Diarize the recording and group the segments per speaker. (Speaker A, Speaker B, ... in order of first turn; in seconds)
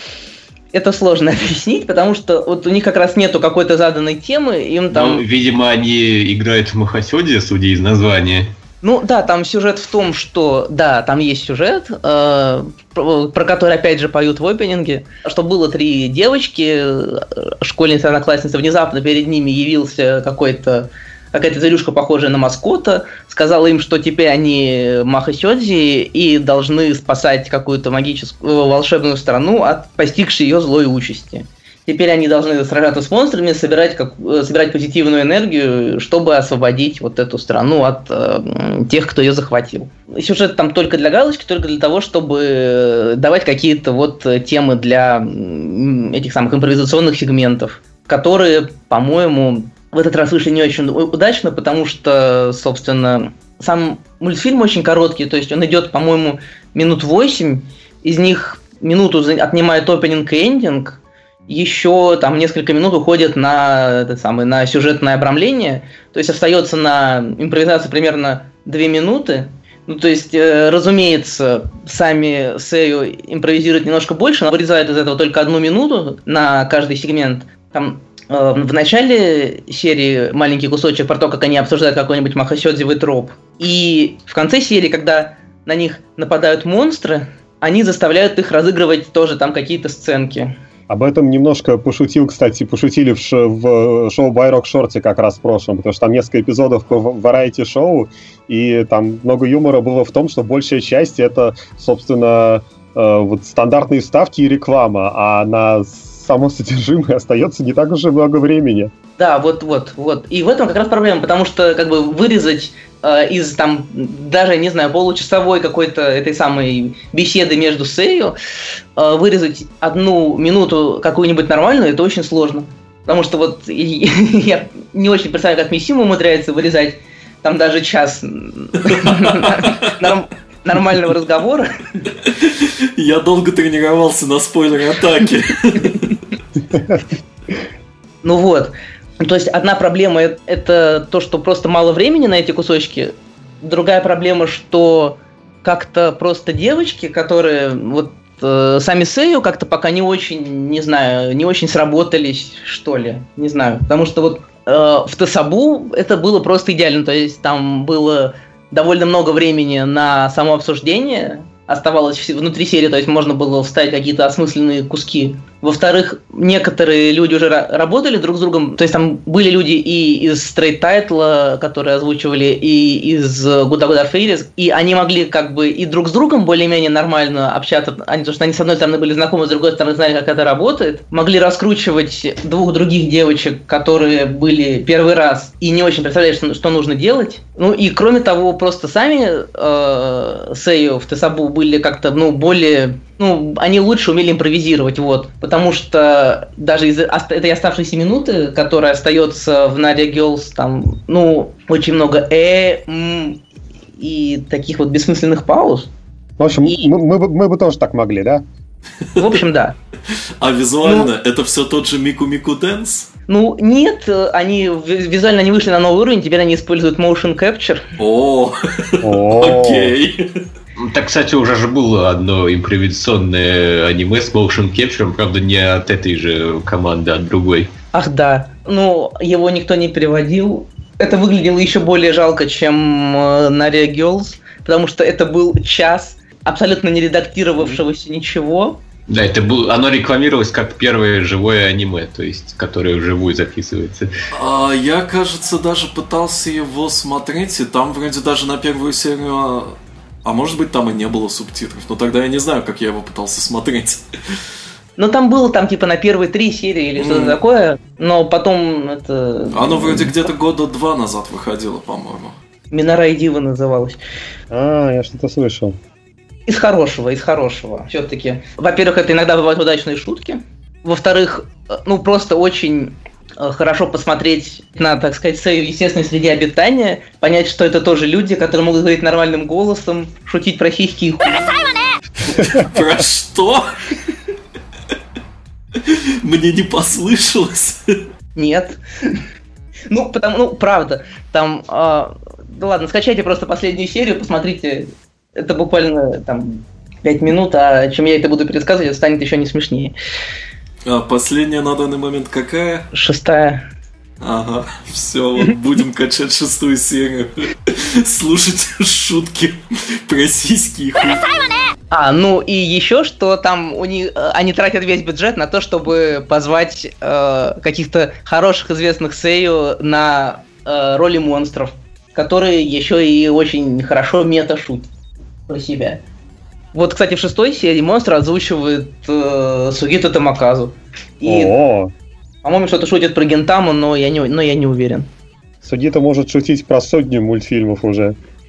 Speaker A: 0.7-5.2, 8.8-90.5, 109.2-118.3, 119.0-131.7, 138.2-203.4, 204.0-205.9, 206.6-206.9, 209.2-209.8, 210.8-211.1, 213.3-217.8, 227.9-238.8, 255.0-260.1, 262.7-264.0, 266.5-281.4, 288.3-289.2, 289.9-299.9, 302.9-303.6, 311.9-324.9, 325.5-326.0, 326.7-331.5, 332.4-335.1
Speaker B: 4.9-8.5, 220.8-227.7, 239.1-244.1
Speaker C: 90.9-108.9, 136.7-137.0, 206.4-208.4, 219.0-219.9, 264.5-265.8, 331.2-331.9, 335.6-338.1
Speaker D: 128.8-129.9, 132.3-136.2, 210.4-213.1, 218.0-220.2, 244.3-254.3, 257.0-257.4, 259.5-262.4, 282.3-283.7, 285.8-287.9, 300.9-302.9, 304.2-311.4